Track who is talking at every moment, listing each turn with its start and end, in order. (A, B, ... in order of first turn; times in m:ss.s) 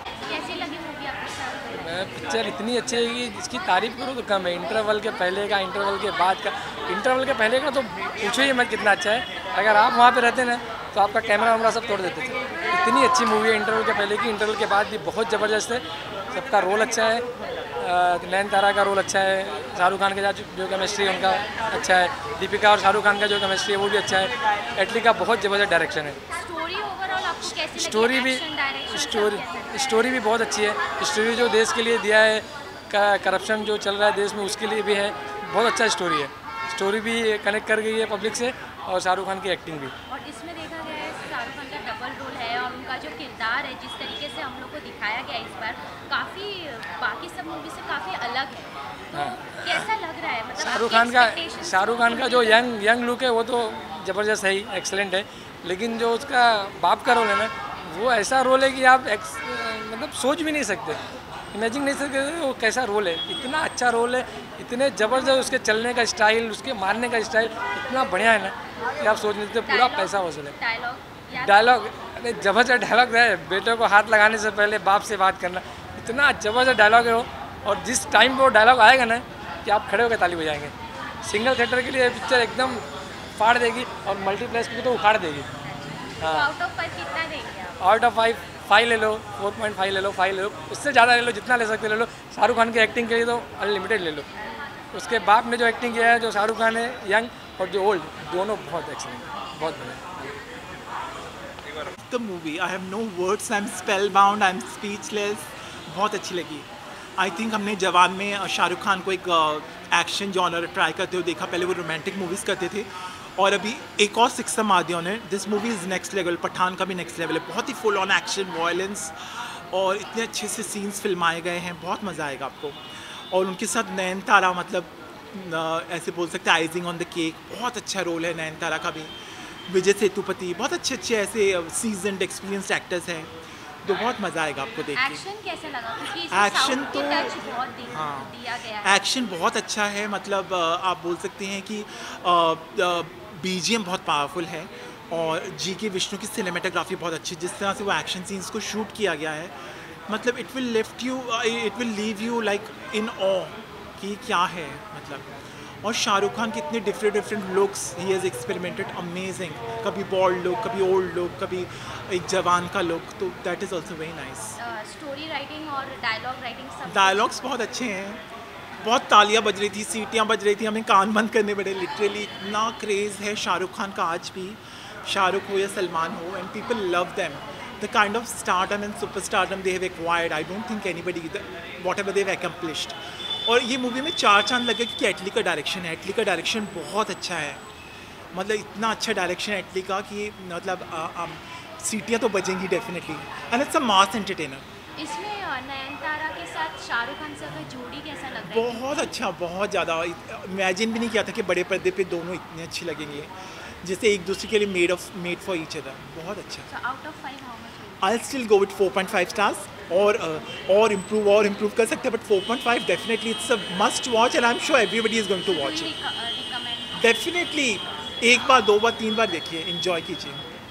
0:00.3-0:02.0 A
0:01.7-0:17.2 B
0:17.8-0:26.2 B
0:26.3-0:30.0 A
0:27.7-0:39.9 B
0:40.1-0:52.7 A
0:49.1-0:49.8 B
0:50.6-1:01.0 B
1:01.5-1:10.5 B
1:09.7-1:11.8 A
1:11.4-1:22.8 B
1:23.4-1:25.5 B
1:26.0-1:27.8 A
1:26.2-1:26.5 B
1:27.8-1:34.2 B
1:34.9-1:40.2 B
1:42.1-1:59.1 C
1:59.7-2:02.8 C
2:03.3-2:09.1 C
2:09.7-2:13.3 C
2:13.8-2:15.2 C
2:14.9-2:19.0 A
2:16.3-2:29.5 C
2:30.1-2:35.3 C
2:35.8-2:44.6 C
2:44.6-2:47.5 A
2:46.8-2:48.2 C
2:48.8-3:07.6 C
3:08.3-3:14.6 C
3:15.0-3:19.1 A
3:18.4-3:23.3 C
3:23.8-3:26.7 C
3:26.7-3:28.0 A
3:28.0-3:35.9 C
3:35.4-3:37.0 A
3:36.9-3:40.4 C